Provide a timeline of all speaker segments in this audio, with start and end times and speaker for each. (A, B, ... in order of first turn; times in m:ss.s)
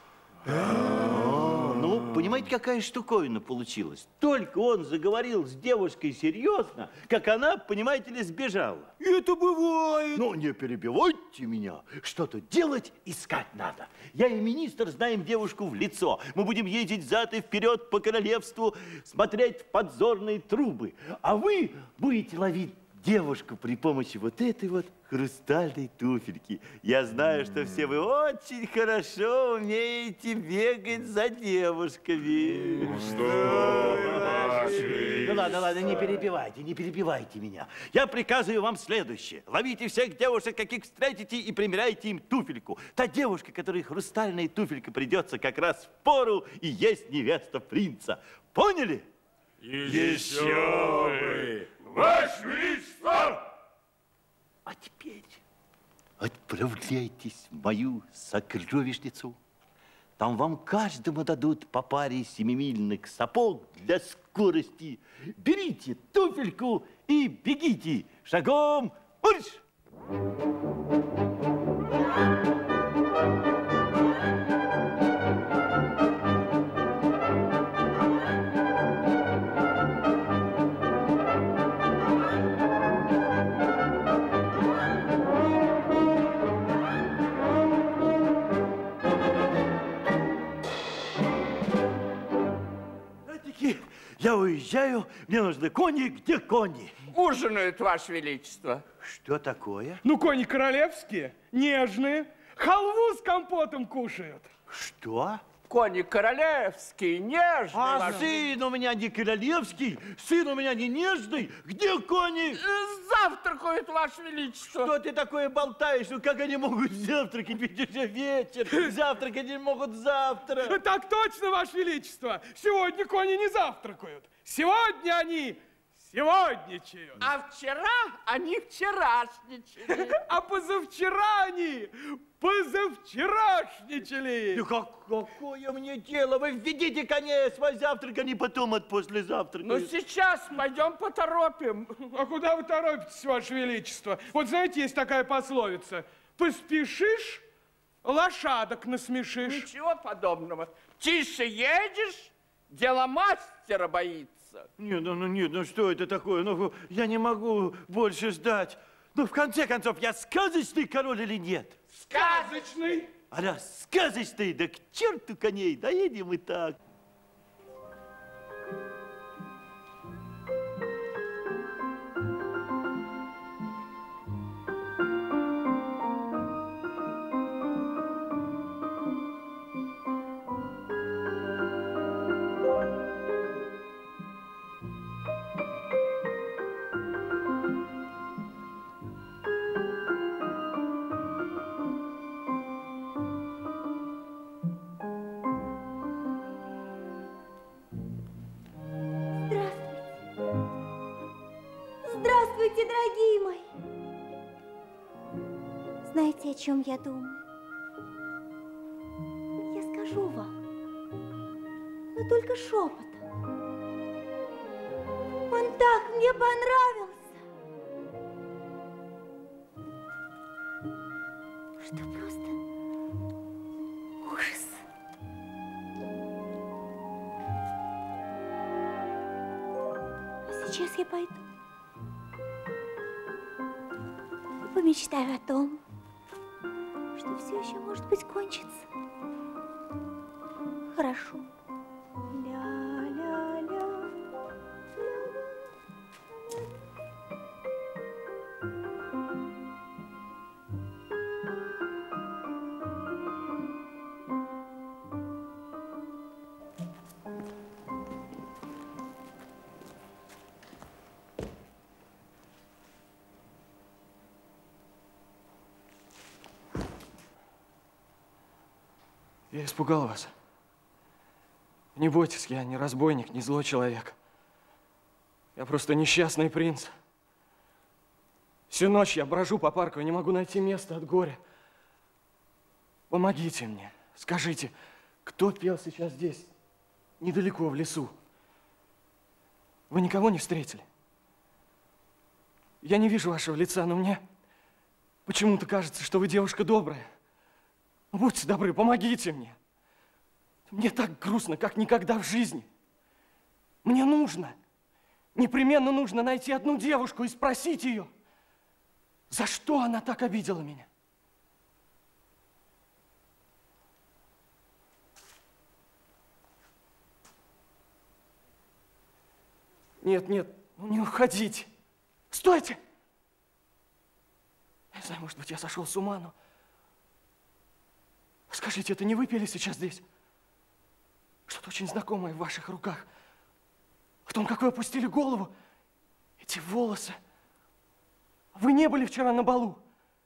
0:00.4-0:49.1 A
0:49.9-0:53.4 B
0:49.9-0:50.3 A
0:54.6-0:55.4 A
0:56.2-0:59.4 A
1:00.2-1:09.6 A
1:33.2-1:37.0 A
1:37.1-1:38.8 C
1:39.0-1:40.0 A
1:40.0-1:44.5 D
1:44.7-1:45.4 A
1:45.7-1:48.4 C
1:47.7-1:52.6 A
1:52.5-1:54.9 C
1:54.8-2:00.8 A
2:00.6-2:07.2 D
2:07.2-2:10.1 C
2:09.9-2:14.6 D
2:14.5-2:19.9 A
2:19.6-2:22.1 C
2:22.1-2:27.4 D
2:28.0-2:29.7 D
2:29.4-2:34.7 C
2:34.8-2:41.8 A
2:42.1-2:43.0 C
2:42.1-2:43.1 D
2:43.3-2:46.8 A
3:19.4-3:20.0 E
3:22.0-3:23.6 E
3:26.1-3:27.4 E
3:29.6-3:30.5 E
3:32.2-3:33.2 E
3:35.5-3:37.4 E
3:41.8-3:42.6 E
3:44.2-3:44.8 E
3:50.5-3:51.4 E
3:54.6-3:55.8 E
3:57.2-3:58.9 E
4:00.9-4:01.4 E
4:02.3-4:04.1 E
4:05.0-4:05.4 E
4:29.5-4:30.3 F
4:32.0-4:34.2 F
4:35.6-4:36.9 F
4:38.7-4:41.4 F
4:43.1-4:44.7 F
4:45.2-4:46.5 F
4:47.2-4:48.1 F
4:49.9-4:50.8 F
4:52.8-4:54.2 F
4:55.3-4:57.1 F
4:58.1-4:59.6 F
5:00.7-5:02.7 F
5:03.8-5:04.6 F
5:05.4-5:08.1 F
5:09.3-5:10.9 F
5:20.0-5:21.7 F
5:22.3-5:22.8 F
5:24.9-5:26.3 F
5:28.5-5:30.0 F
5:31.5-5:33.1 F
5:34.3-5:35.5 F
5:36.4-5:37.2 F
5:38.6-5:39.8 F